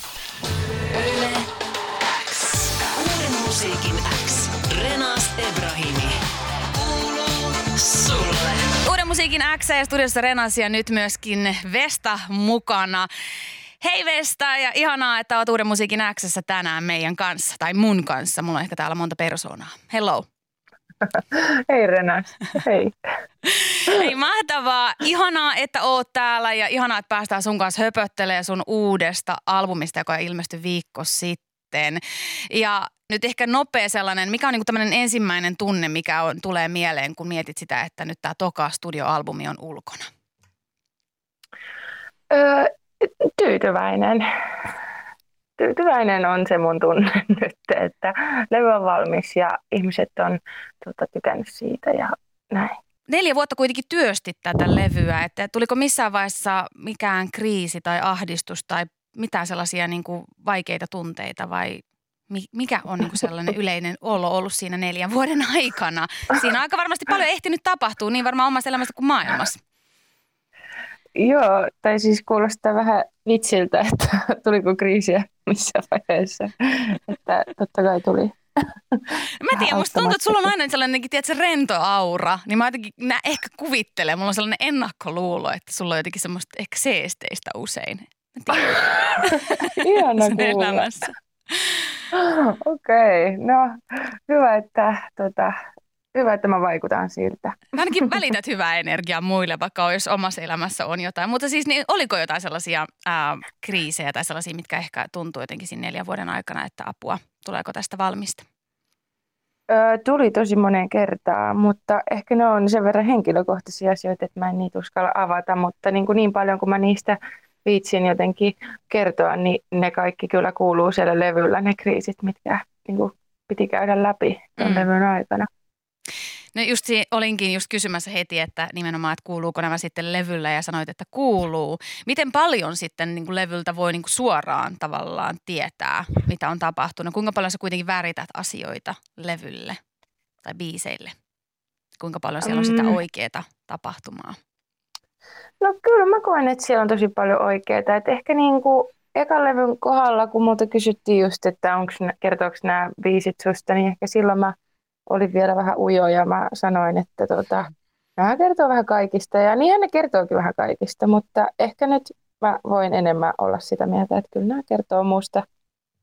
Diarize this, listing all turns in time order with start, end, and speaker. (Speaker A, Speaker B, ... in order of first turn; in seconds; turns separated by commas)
Speaker A: 0.8-1.5, Speaker A: 2.3-6.2, Speaker A: 6.7-8.8, Speaker B: 8.8-13.1, Speaker B: 13.8-20.2, Speaker C: 21.0-22.9, Speaker B: 23.4-40.0, Speaker C: 42.3-44.7, Speaker C: 45.6-52.8, Speaker B: 53.1-69.6, Speaker C: 71.2-80.5, Speaker B: 79.2-92.0, Speaker C: 88.5-88.8, Speaker C: 89.3-90.9, Speaker C: 92.1-95.5, Speaker C: 96.1-98.2, Speaker B: 97.7-108.4, Speaker C: 109.7-125.5, Speaker B: 124.6-124.9, Speaker B: 126.5-139.8, Speaker B: 140.4-141.1, Speaker B: 142.0-144.4, Speaker C: 142.4-143.0, Speaker C: 145.6-154.5, Speaker C: 155.1-165.4